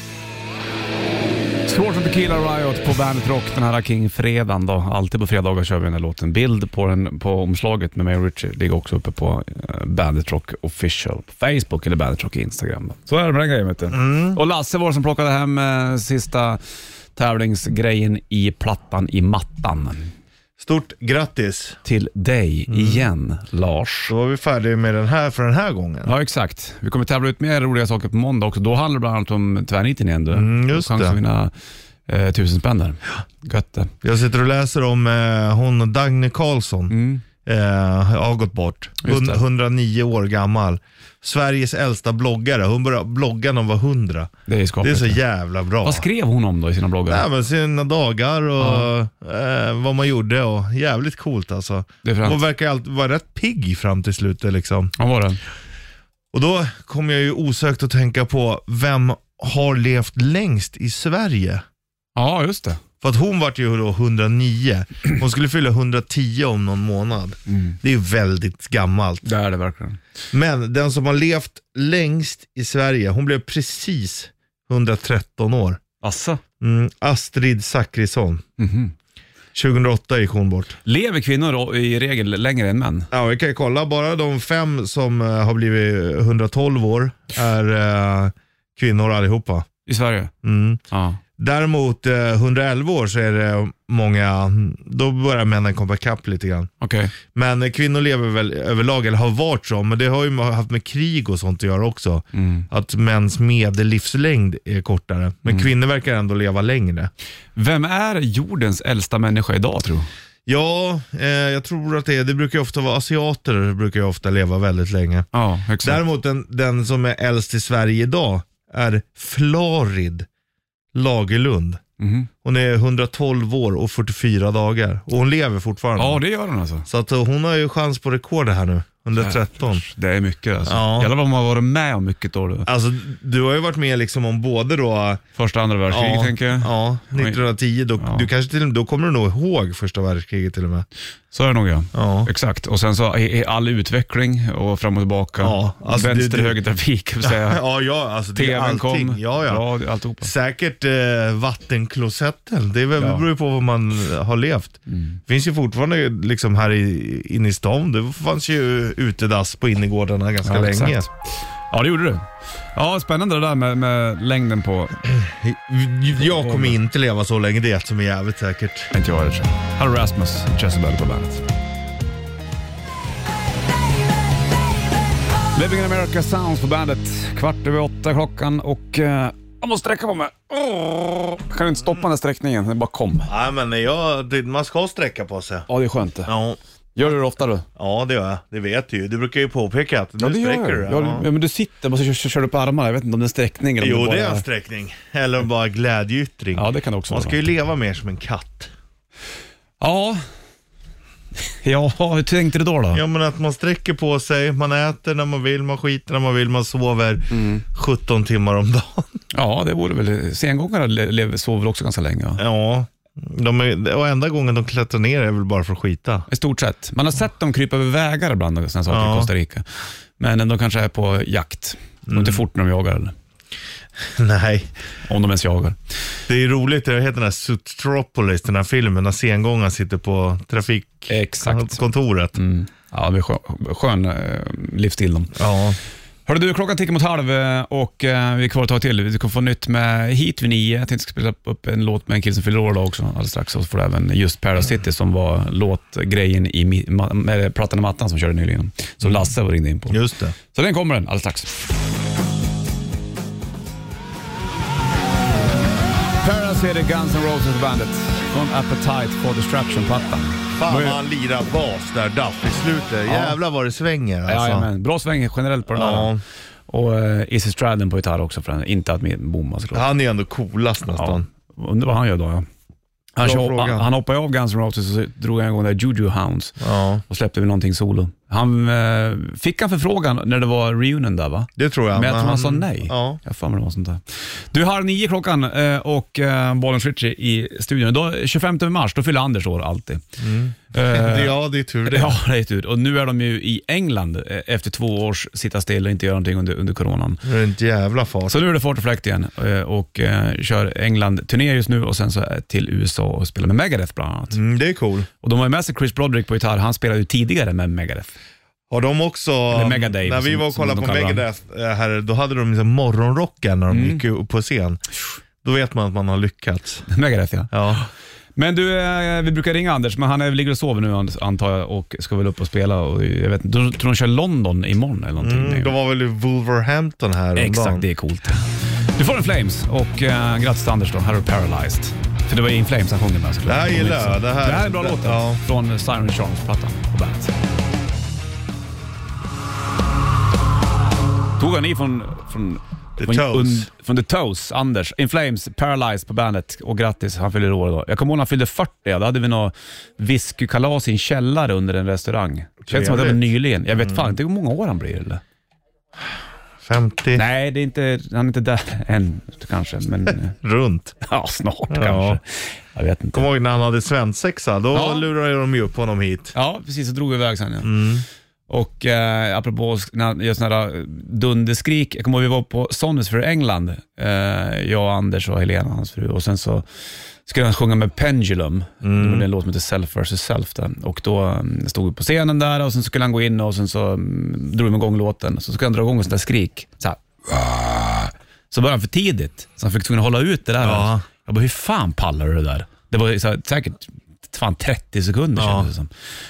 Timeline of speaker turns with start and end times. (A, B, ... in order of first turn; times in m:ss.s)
0:01.7-0:16.6 A
0:13.9-0:14.4 B
0:17.2-0:20.1 A
0:20.6-0:21.8 B
0:21.8-0:24.1 A
0:22.7-0:23.1 B
0:24.1-0:26.1 B
0:26.1-0:31.5 A
0:30.3-0:31.2 B
0:32.1-0:33.9 A
0:34.0-0:46.1 B
0:36.9-0:37.2 A
0:39.0-0:39.4 A
0:44.5-0:45.2 A
0:45.8-0:47.2 A
0:47.1-0:54.9 B
0:48.6-0:48.9 A
0:52.0-0:52.4 A
0:55.0-0:55.4 A
0:56.3-1:01.6 B
1:02.2-1:02.8 A
1:03.0-1:09.3 B
1:07.5-1:07.8 A
1:09.2-1:10.0 A
1:10.3-1:15.8 B
1:16.0-1:16.4 A
1:16.6-1:18.4 B
1:18.6-1:18.9 A
1:19.6-1:20.8 B
1:20.8-1:23.1 A
1:23.1-1:29.7 B
1:29.9-1:30.3 A
1:30.4-1:30.8 B
1:30.9-1:31.2 A
1:31.4-1:36.7 B
1:36.8-1:37.1 A
1:37.3-1:47.1 B
1:42.3-1:42.7 A
1:47.6-1:50.1 A
1:50.5-1:55.3 B
1:55.3-1:56.0 A
1:55.8-2:00.3 B
2:00.9-2:01.8 B
2:02.0-2:02.3 A
2:02.4-2:06.2 B
2:06.0-2:06.9 A
2:06.9-2:09.8 B
2:09.2-2:12.7 A
2:10.7-2:11.1 B
2:12.7-2:15.2 B
2:15.4-2:17.4 A
2:15.9-2:20.9 B
2:18.0-2:18.3 A
2:21.3-2:27.6 A
2:21.9-2:22.3 B
2:25.4-2:26.6 B
2:27.2-2:29.7 B
2:28.4-2:30.3 A
2:30.2-2:41.1 B
2:33.0-2:33.2 A
2:34.9-2:35.2 A
2:40.4-2:41.1 A
2:41.7-2:45.0 A
2:45.0-2:48.9 B
2:46.2-2:46.8 A
2:48.9-2:51.4 A
2:55.6-3:03.3 A
3:03.3-3:05.7 B
3:05.7-3:06.3 A
3:06.3-3:06.6 B
3:07.0-3:07.6 A
3:07.8-3:11.3 B
3:10.2-3:14.4 A
3:13.8-3:18.7 B
3:16.6-3:17.4 A
3:19.8-3:20.2 A
3:21.4-3:23.0 A
3:22.9-3:29.2 B
3:27.3-3:27.6 A
3:29.3-3:32.4 A
3:32.4-3:36.3 B
3:36.3-3:43.1 A
3:38.9-3:39.3 B
3:42.1-3:42.4 B
3:44.0-3:44.7 B
3:45.1-3:45.8 A
3:46.3-3:52.4 B
3:51.1-3:51.8 A
3:52.4-3:55.4 A
3:55.4-3:55.8 B
3:56.3-4:11.6 A
4:09.9-4:10.4 B
4:16.2-4:21.0 A
4:20.6-4:24.7 B
4:23.1-4:23.4 A
4:24.3-4:26.1 A
4:25.7-4:26.2 B
4:26.7-4:29.9 A
4:29.7-4:31.3 B
4:30.9-4:32.5 A
4:33.2-4:50.0 A
4:33.2-4:33.9 B
4:36.6-4:37.0 B
4:41.6-4:43.2 B
4:50.2-4:52.2 B
4:50.7-4:57.2 A
4:57.2-4:58.4 B
4:58.3-5:04.4 A
5:04.3-5:05.1 B
5:05.2-5:08.1 A
5:08.7-5:14.8 B
5:09.5-5:11.2 A
5:13.7-5:14.0 A
5:15.4-5:16.9 B
5:16.9-5:25.7 A
5:17.5-5:17.8 B
5:25.2-5:27.8 B
5:27.4-5:37.3 A
5:33.5-5:35.4 B
5:41.4-5:55.2 A
5:43.0-5:43.7 B
5:52.7-5:53.3 B
5:53.8-5:54.1 B
5:56.6-5:57.2 B
5:57.2-6:00.4 A
6:00.4-6:01.0 B
6:01.0-6:03.3 A
6:01.7-6:02.2 B
6:03.1-6:06.4 B
6:04.7-6:05.1 A
6:06.3-6:07.8 A
6:07.6-6:08.0 B
6:08.5-6:16.6 A
6:17.3-6:35.9 A
6:18.8-6:19.3 B
6:30.6-6:31.1 B
6:35.4-6:35.7 B